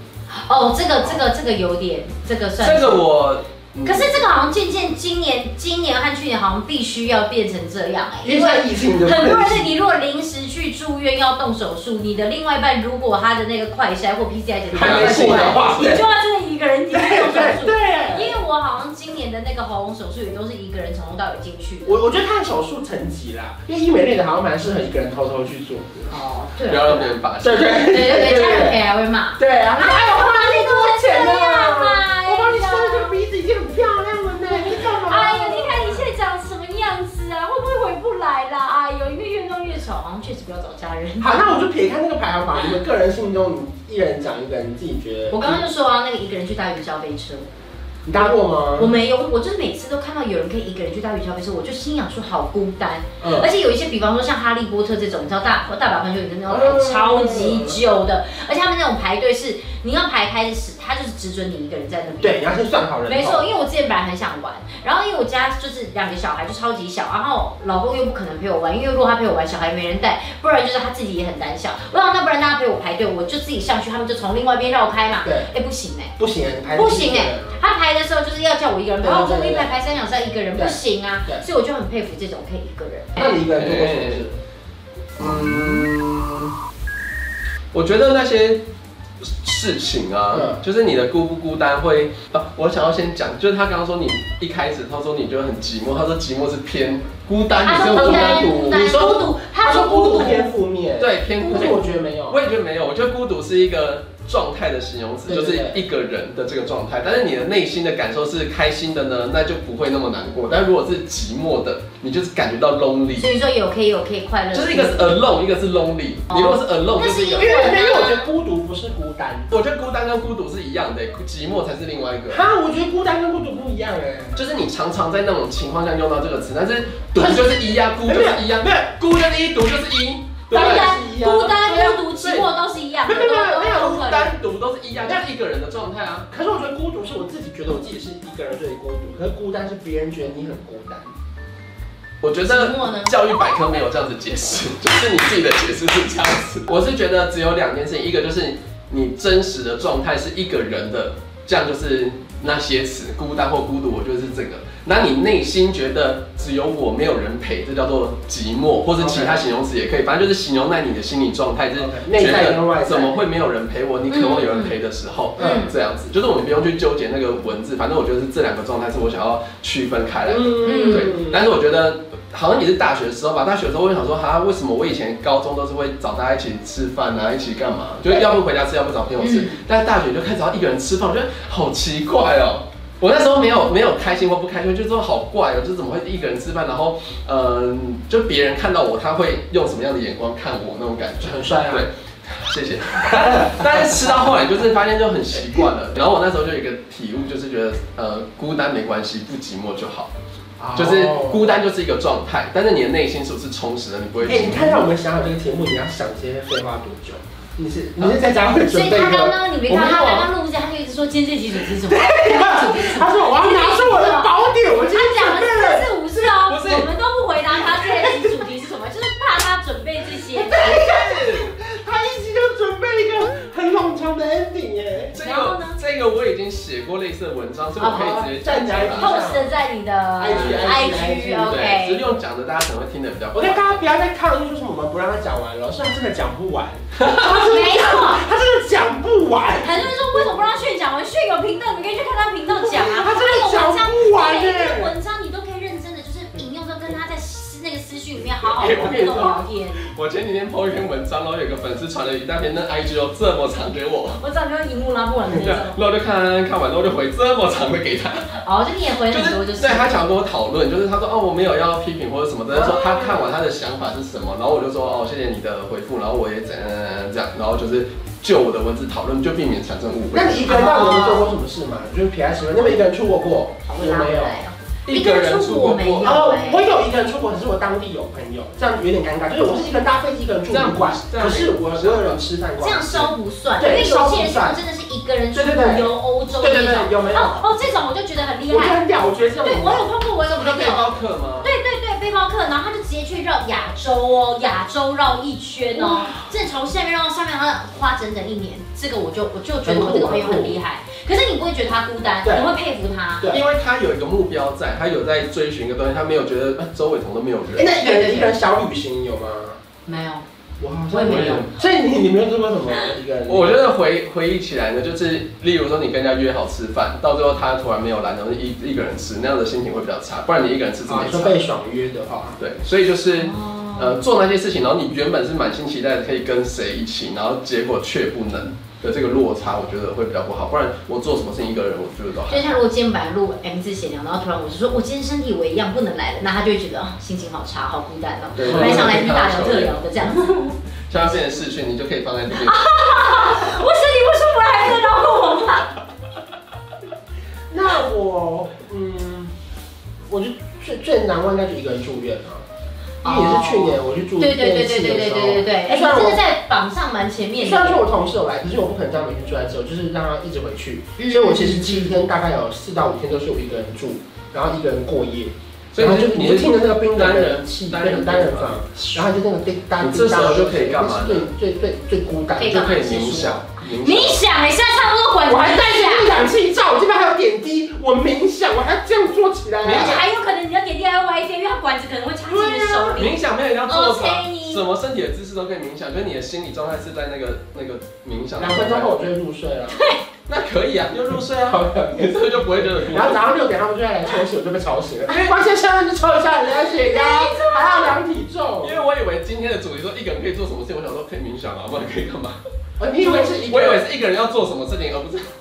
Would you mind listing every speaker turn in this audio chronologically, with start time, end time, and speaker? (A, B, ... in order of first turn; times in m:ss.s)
0:00.3-0:03.0 A
0:02.6-0:04.2 B
0:03.8-0:22.0 A
0:08.2-0:09.7 C
0:14.7-0:16.0 C
0:14.7-0:16.0 B
0:16.9-0:18.4 C
0:21.8-0:26.2 C
0:26.1-0:27.2 A
0:26.6-0:28.1 B
0:27.4-0:28.8 C
0:27.8-0:33.1 A
0:29.4-0:36.0 C
0:34.5-0:41.6 A
0:41.2-0:45.6 C
0:45.3-0:47.5 A
0:48.0-0:48.9 C
0:48.2-1:02.4 A
0:53.2-0:53.5 C
0:56.5-0:57.8 C
1:02.2-1:03.4 C
1:03.0-1:16.1 A
1:15.2-1:15.5 C
1:16.2-1:17.5 C
1:16.7-1:23.4 A
1:19.0-1:19.7 C
1:20.6-1:21.4 C
1:23.2-1:24.4 C
1:23.3-1:24.2 B
1:25.2-1:26.5 B
1:25.2-1:25.8 C
1:27.7-1:28.6 B
1:29.2-1:38.8 B
1:30.3-1:30.6 C
1:37.6-1:40.5 A
1:37.8-1:42.4 C
1:41.0-1:53.3 B
1:45.3-1:45.8 C
1:53.1-1:55.3 A
1:54.5-1:57.5 B
1:56.3-1:58.3 A
1:57.1-1:59.5 C
1:59.5-2:02.4 B
2:02.3-2:04.4 C
2:04.3-2:10.9 B
2:07.1-2:08.9 C
2:10.5-2:14.3 A
2:10.5-2:12.5 C
2:13.0-2:14.0 C
2:13.7-2:16.3 B
2:15.0-2:15.2 C
2:16.3-2:21.1 C
2:22.2-3:20.1 B
2:22.4-2:23.2 A
2:39.0-2:39.4 C
2:41.8-2:43.2 C
2:44.1-2:44.8 A
2:45.4-2:45.7 C
2:45.4-2:45.7 A
2:50.3-2:51.4 C
2:50.6-2:51.2 A
2:59.2-2:59.6 A
3:11.2-3:11.9 C
3:13.2-3:13.9 C
3:20.6-3:21.6 C
3:20.7-3:24.8 B
3:24.2-3:30.3 C
3:28.7-3:40.8 A
3:31.6-3:35.9 C
3:36.3-3:36.9 B
3:37.6-3:38.4 C
3:40.3-3:45.1 C
3:40.7-3:41.5 B
3:45.1-3:49.1 B
3:45.2-3:45.8 A
3:47.8-3:48.2 A
3:47.8-3:49.5 C
3:48.9-3:52.1 A
3:50.2-3:51.5 C
3:50.3-3:53.8 B
3:53.3-4:00.3 C
3:57.3-3:58.2 A
3:59.6-4:09.8 A
4:02.5-4:04.9 C
4:08.6-4:14.2 B
4:14.2-4:15.8 A
4:15.3-4:18.4 B
4:18.4-4:20.0 A
4:19.1-4:30.7 B
4:22.5-4:23.3 C
4:30.1-4:34.4 C
4:30.4-4:31.3 A
4:33.6-4:36.7 A
4:34.9-4:36.2 B
4:36.0-4:44.6 C
4:40.5-4:42.2 B
4:42.6-4:48.8 A
4:45.3-4:47.4 C
4:48.5-4:49.8 C
4:49.4-5:03.4 A
4:50.3-4:51.5 B
4:55.8-4:56.1 C
4:59.6-5:00.6 C
5:02.2-5:02.5 C
5:03.3-5:08.1 B
5:07.5-5:09.6 C
5:07.9-5:08.3 A
5:09.8-5:10.2 A
5:10.6-5:13.7 C
5:10.9-5:11.5 A
5:11.0-5:11.5 B
5:13.3-5:21.4 B
5:20.8-5:22.4 C
5:22.4-5:32.6 B
5:23.1-5:24.0 A
5:32.3-5:40.6 A
5:38.4-5:39.8 B
5:40.9-5:42.6 B
5:42.3-5:45.7 A
5:47.5-5:49.3 C
5:50.1-5:52.4 C
5:53.0-5:56.2 C
5:53.0-5:57.8 A
5:57.4-6:13.4 C
6:01.0-6:02.0 A
6:05.7-6:09.0 B
6:09.8-6:11.3 B
6:12.4-6:16.2 A
6:12.4-6:14.2 B
6:15.2-6:20.0 C
6:19.6-6:24.6 A
6:19.6-6:20.0 B
6:22.3-6:22.9 C
6:22.8-6:29.1 B
6:28.4-6:29.8 C
6:29.7-6:30.0 A
6:30.3-6:33.2 B
6:31.1-6:38.8 C
6:36.5-6:38.0 A
6:38.6-6:42.4 B
6:42.8-6:43.9 C
6:43.0-6:45.3 B